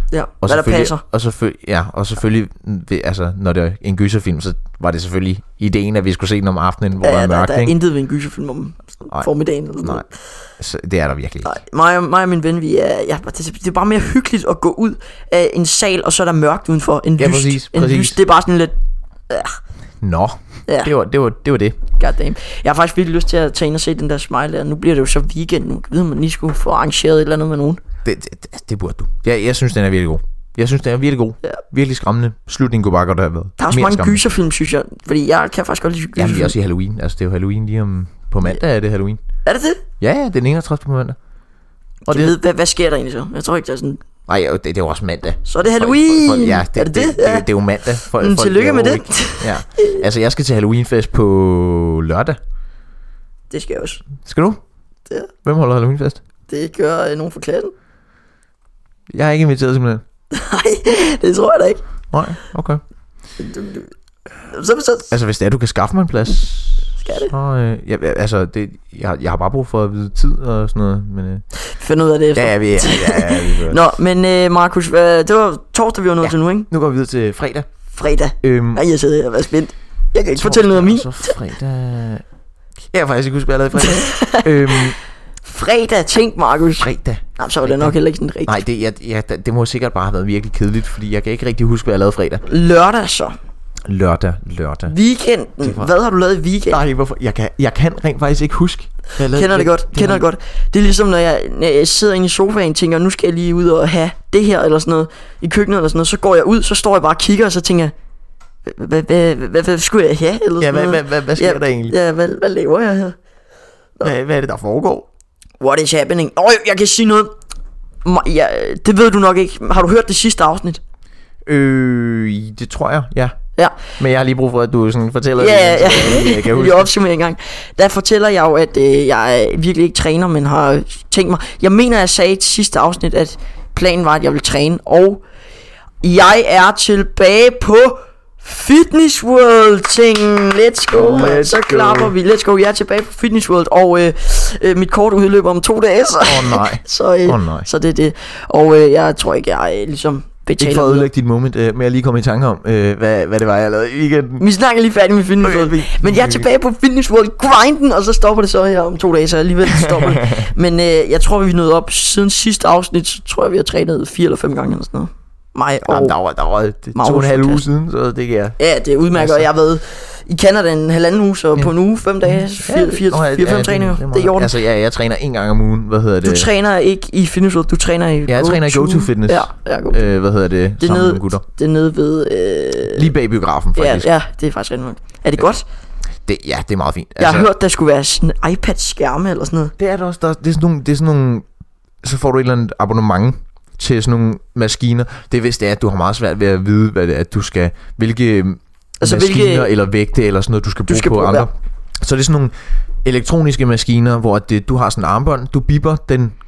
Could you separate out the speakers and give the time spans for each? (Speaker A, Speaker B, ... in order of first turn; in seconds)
Speaker A: 0.1-1.0, 7.0-10.1, 11.4-18.7, 19.3-19.6, 22.0-27.8, 33.6-36.5, 39.5-39.8, 42.1-44.0, 45.5-47.5, 48.1-50.0, 53.5-54.0, 56.5-57.7, 60.3-61.8, 63.4-63.9, 64.5-65.1, 67.0-67.3, 71.7-76.7, 77.9-81.4, 83.8-84.9, 85.4-88.6, 92.5-93.4, 94.9-96.8, 99.3-107.9, 108.7-113.2, 115.6-117.3, 118.0-120.8, 125.4-135.2, 136.0-151.1, 154.4-166.2, 166.9-167.6, 168.6-174.5, 176.2-180.1, 180.8-183.1, 183.8-185.6, 187.2-189.7, 199.0-199.7, 200.9-201.5
Speaker B: 0.4-7.8, 10.6-11.6, 17.2-18.2, 20.0-21.8, 28.1-34.2, 36.2-39.2, 40.0-41.2, 42.1-42.4, 44.3-52.4, 54.2-54.6, 55.4-56.2, 59.1-60.0, 62.1-62.8, 65.1-71.4, 72.3-73.8, 76.2-77.7, 78.4-78.8, 80.3-82.2, 82.9-85.0, 86.8-88.0, 88.5-92.4, 93.9-94.9, 95.6-95.9, 96.7-100.2, 110.6-112.0, 114.0-115.1, 121.5-123.4, 124.0-126.9, 140.9-142.1, 146.2-147.7, 150.6-154.4, 155.4-156.5, 159.8-160.4, 165.9-168.6, 169.1-169.5, 172.2-176.5, 178.3-181.4, 182.9-184.1, 186.3-187.5, 189.8-191.5, 192.0-202.5, 203.0-206.3